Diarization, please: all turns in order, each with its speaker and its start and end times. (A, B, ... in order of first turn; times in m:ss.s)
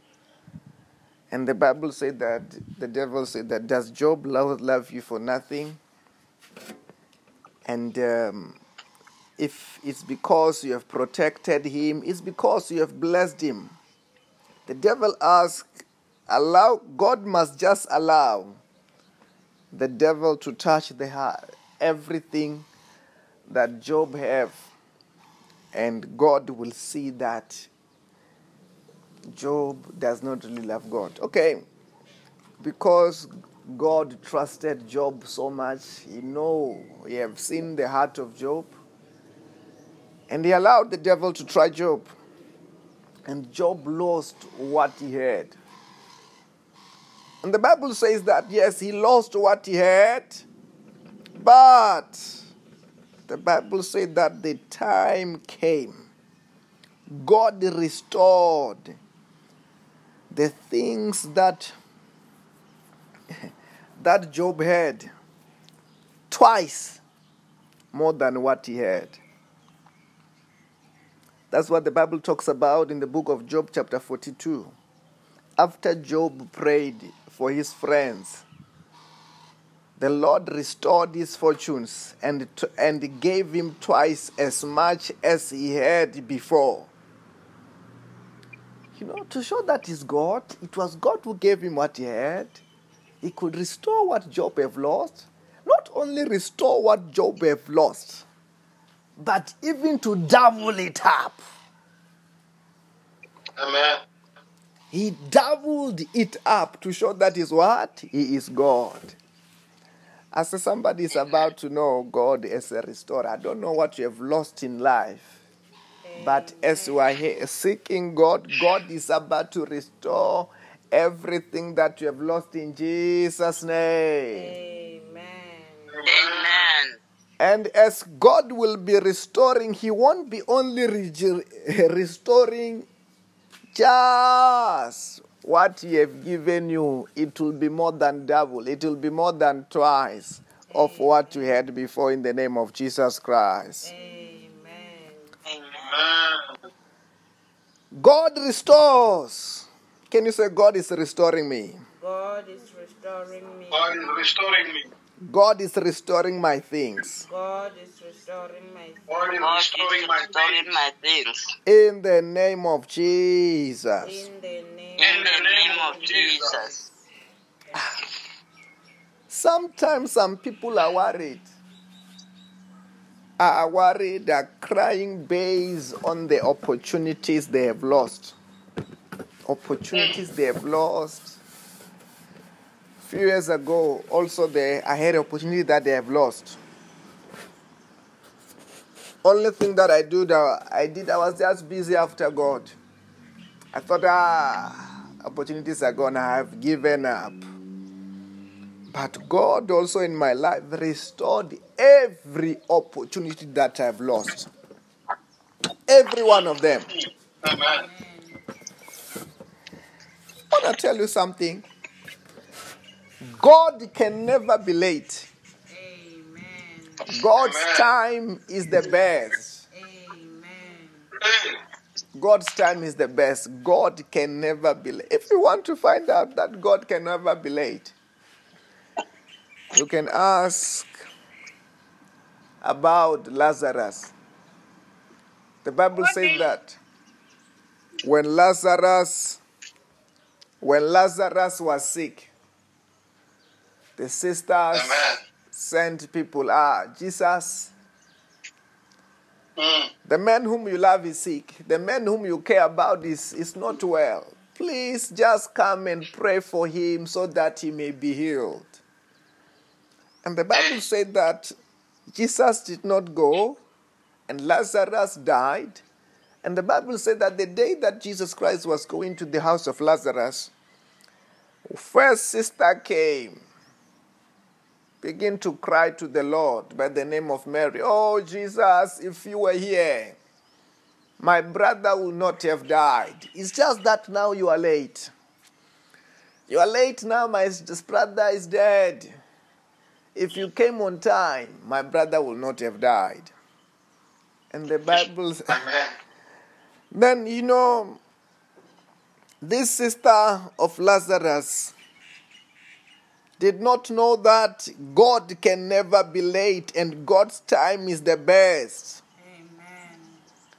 0:01.3-0:05.8 A
0:07.6-0:08.6 A
0:09.4-0:13.8 A
0:14.7-0:15.7 A
0:16.3-0:18.6 A
0:19.7-0:22.7 A
0:23.5-0:24.6 A
0:25.7-0:27.7 A
0:29.3-0:31.6 A
0:32.6-0:38.8 A
0:40.3-0:42.1 A
0:43.2-0:45.6 A
0:47.4-0:50.4 A
0:51.4-0:52.4 A
0:53.3-0:56.1 A
0:57.1-0:59.0 A
1:00.3-1:01.7 A
1:04.0-1:05.1 A
1:06.3-1:07.0 A
1:07.9-1:09.2 A
1:11.5-1:14.7 A
1:15.6-1:18.4 A
1:20.0-1:26.9 A
1:28.9-1:32.6 A
1:33.2-1:38.2 A
1:39.2-1:41.4 A
1:43.6-1:44.0 B
1:44.9-1:49.2 A
1:50.3-1:55.3 A
1:56.0-1:57.0 C
1:56.2-2:04.5 A
2:04.3-2:06.1 C
2:05.9-2:06.7 B
2:06.0-2:07.0 D
2:07.4-2:12.9 A
2:13.7-2:23.9 A
2:20.7-2:21.6 C
2:23.8-2:25.3 C
2:25.4-2:25.9 D
2:25.8-2:26.5 B
2:27.9-2:31.8 A
2:32.0-2:34.1 C
2:33.7-2:34.9 B
2:35.2-2:37.2 A
2:37.2-2:39.4 C
2:39.1-2:40.7 B
2:39.4-2:41.5 D
2:41.6-2:44.2 A
2:44.0-2:46.8 C
2:45.0-2:46.6 B
2:45.0-2:46.9 D
2:49.3-2:51.5 A
2:53.4-2:58.3 A
2:59.4-3:01.4 A
3:03.0-3:06.6 A
3:09.2-3:12.7 A
3:13.7-3:17.4 A
3:18.9-3:24.5 A
3:25.9-3:26.9 A
3:26.9-3:27.8 B
3:27.5-3:28.4 C
3:30.5-3:31.7 A
3:33.2-3:35.3 A
3:35.7-3:37.1 C
3:37.1-3:39.6 A
3:37.3-3:37.9 B
3:39.7-3:41.1 C
3:41.2-3:41.6 B
3:42.1-3:47.9 A
3:49.7-3:50.9 A
3:52.6-3:54.1 A
3:55.6-3:56.8 A
3:56.0-3:56.4 B
3:58.0-3:59.4 A
4:00.6-4:02.3 A
4:04.0-4:07.7 A
4:04.7-4:05.2 B
4:09.6-4:09.9 B
4:10.0-4:18.8 A
4:20.2-4:21.5 A
4:20.5-4:20.8 B
4:22.1-4:23.6 A
4:24.3-4:25.8 A
4:26.4-4:30.5 A
4:31.6-4:33.4 A
4:35.0-4:40.2 A
4:41.2-4:45.1 A
4:46.5-4:49.1 A
4:50.1-4:53.3 A
4:54.5-4:55.6 A
4:55.5-4:55.9 B
4:56.9-4:58.0 A
4:59.4-5:01.7 A
5:03.4-5:09.0 A
5:09.2-5:10.2 C